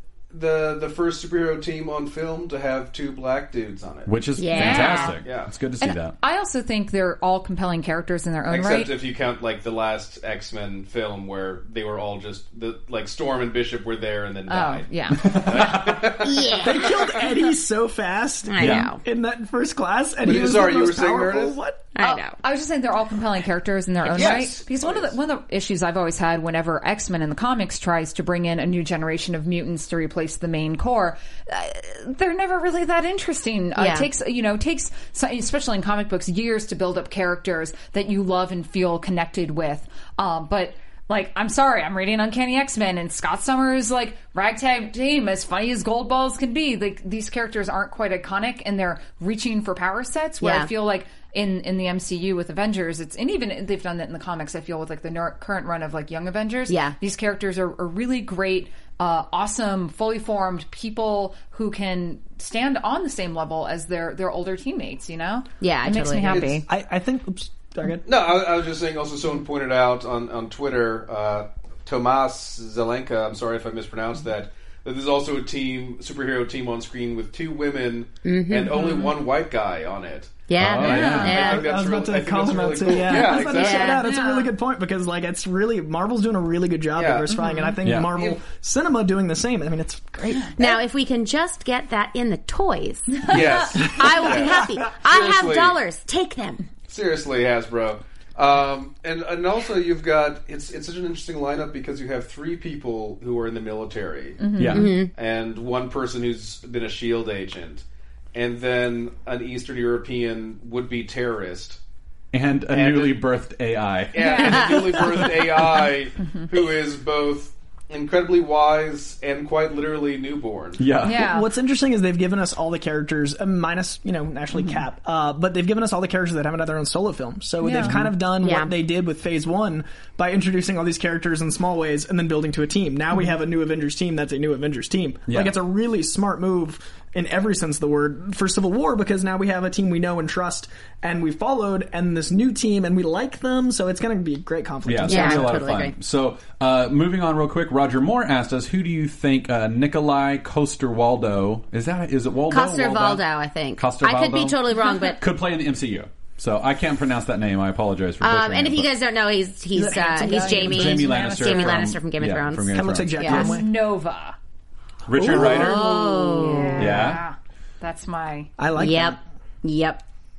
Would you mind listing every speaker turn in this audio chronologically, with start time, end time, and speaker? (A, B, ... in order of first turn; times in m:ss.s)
0:00.3-0:04.3 A
0:04.0-0:06.2 B
0:04.4-0:05.1 C
0:04.5-0:05.2 D
0:05.1-0:05.5 A
0:05.8-0:08.9 D
0:08.5-0:17.1 A
0:14.5-0:15.5 D
0:15.2-0:16.0 B
0:16.2-0:16.9 C
0:16.6-0:21.8 E
0:18.5-0:19.0 C
0:18.6-0:19.0 B
0:20.2-0:21.6 A
0:21.9-0:22.4 C
0:22.0-1:06.6 D
0:24.0-0:25.1 A
0:33.8-0:34.1 C
0:50.4-0:50.7 C
0:56.7-0:57.0 C
1:05.6-1:06.5 C
1:06.3-1:06.6 A
1:06.7-1:08.0 E
1:08.0-1:24.0 A
1:18.2-1:18.9 C
1:18.8-1:19.1 D
1:20.5-1:21.6 C
1:20.6-1:21.5 B
1:20.8-1:21.3 D
1:21.2-1:30.5 E
1:23.2-1:24.0 C
1:24.0-1:24.5 D
1:26.9-1:27.3 A
1:27.3-1:27.8 D
1:27.8-1:28.2 B
1:28.0-1:28.4 A
1:30.3-1:30.6 D
1:30.6-1:36.6 C
1:33.3-1:35.8 A
1:34.2-1:34.6 E
1:36.9-1:51.8 A
1:44.4-1:44.9 D
1:44.5-1:45.0 B
1:44.7-1:45.1 C
1:52.3-1:55.8 B
1:52.7-1:53.3 A
1:54.1-2:00.8 A
1:54.2-1:54.8 D
2:00.8-2:01.3 B
2:01.0-2:01.5 D
2:01.1-2:25.6 E
2:07.6-2:07.9 D
2:08.4-2:08.7 C
2:15.3-2:15.5 B
2:24.8-2:33.2 B
2:25.0-2:26.0 C
2:32.5-2:35.2 C
2:33.8-2:38.9 B
2:38.2-2:43.5 C
2:39.7-2:41.0 E
2:39.9-2:41.8 D
2:40.5-2:43.4 B
2:42.7-2:43.7 E
2:43.2-2:44.4 D
2:45.1-2:46.0 B
2:45.2-2:45.8 E
2:45.2-2:47.1 C
2:45.4-2:48.5 D
2:46.8-2:47.2 B
2:48.6-2:49.2 E
2:48.8-2:50.0 C